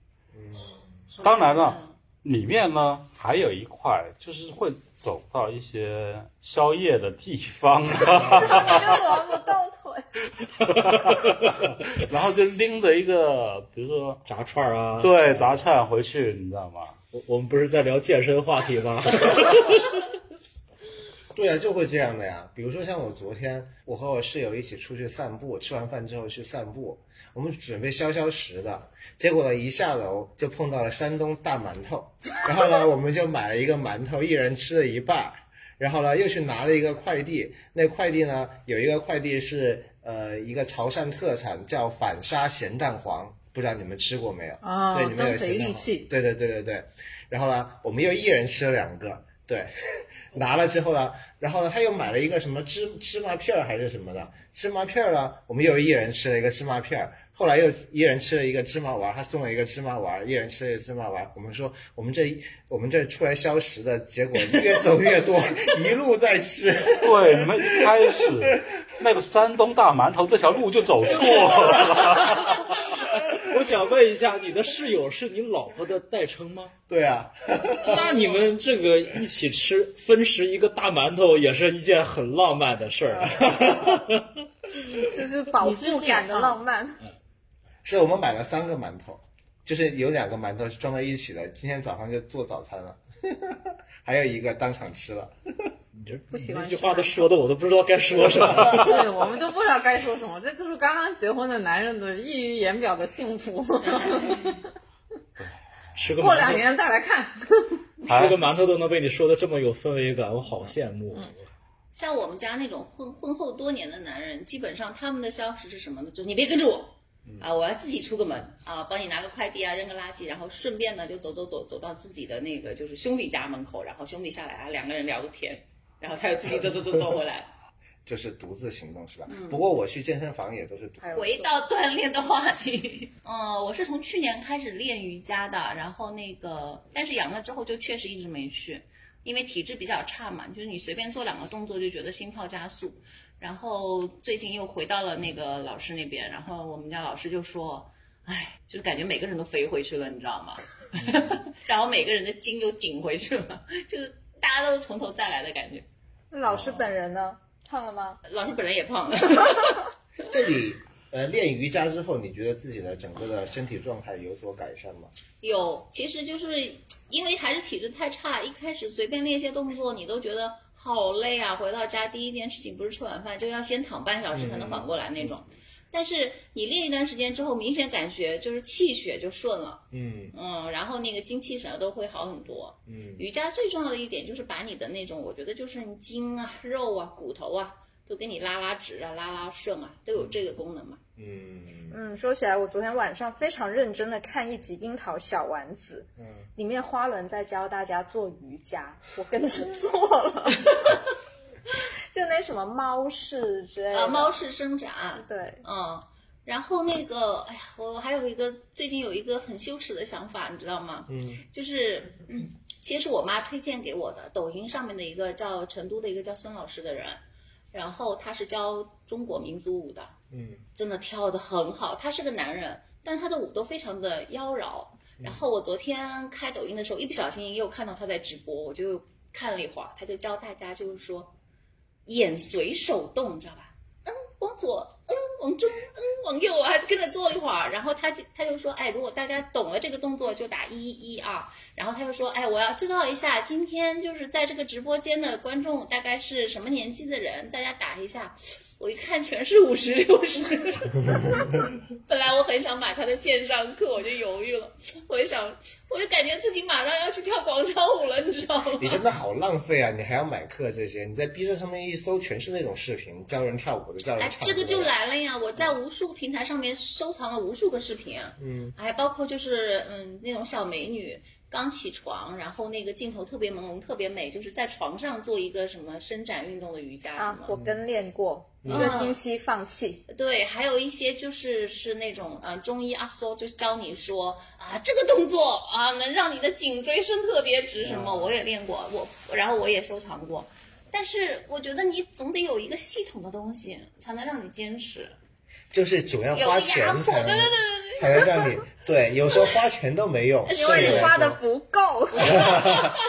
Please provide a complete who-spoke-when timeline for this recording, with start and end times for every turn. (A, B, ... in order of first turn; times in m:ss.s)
0:00.3-0:01.0 A
0:01.1-0:02.0 B
0:01.2-0:09.0 C
0:08.4-0:10.0 D
0:10.6-0:11.5 E
0:10.8-0:14.2 C
0:14.2-0:15.6 E
0:15.0-0:17.0 C
0:17.1-0:19.9 E
0:21.3-0:49.7 A
0:44.6-0:46.1 F
0:50.3-1:08.5 A
1:07.0-1:12.8 C
1:12.4-1:16.7 E
1:16.9-1:18.0 A
1:17.8-1:24.2 E
1:25.0-1:27.0 D
1:25.6-1:26.6 F
1:27.8-1:35.7 A
1:35.9-1:39.1 E
1:36.3-1:37.4 D
1:38.7-1:44.7 F
1:43.8-1:44.6 B
1:45.4-1:46.1 C
1:45.9-1:46.6 E
1:46.2-1:47.8 F
1:48.0-1:51.4 E
1:48.1-1:48.4 C
1:51.9-2:07.5 B
2:08.0-2:11.2 A
2:09.3-2:09.6 B
2:11.1-2:11.4 D
2:11.1-2:35.9 B
2:36.3-2:38.2 D
2:36.4-2:36.9 A
2:38.2-2:39.8 B
2:40.3-2:45.1 A
2:45.4-3:11.0 B
2:54.3-2:55.3 A
2:59.9-3:00.3 A
3:02.9-3:03.2 A
3:10.2-3:10.4 A
3:11.2-3:12.0 A
3:11.9-3:21.0 D
3:16.2-3:16.5 A
3:22.1-3:24.3 D
3:23.9-3:37.2 B
3:25.2-3:25.6 D
3:31.1-3:31.4 A
3:37.7-3:40.2 B
3:40.3-3:40.6 A
3:40.8-3:51.3 B
3:52.0-4:19.0 B
4:18.8-4:24.9 A
4:24.2-4:37.5 B
4:28.4-4:28.7 A
4:37.2-4:40.0 D
4:37.5-4:37.8 A
4:38.6-4:39.0 A
4:38.7-4:39.2 B
4:40.1-4:55.2 B
4:47.8-4:48.4 A
4:55.7-5:01.4 A
4:56.3-4:58.5 B
5:00.5-5:01.1 B
5:00.5-5:02.8 D
5:02.2-5:02.9 B
5:02.2-5:02.9 A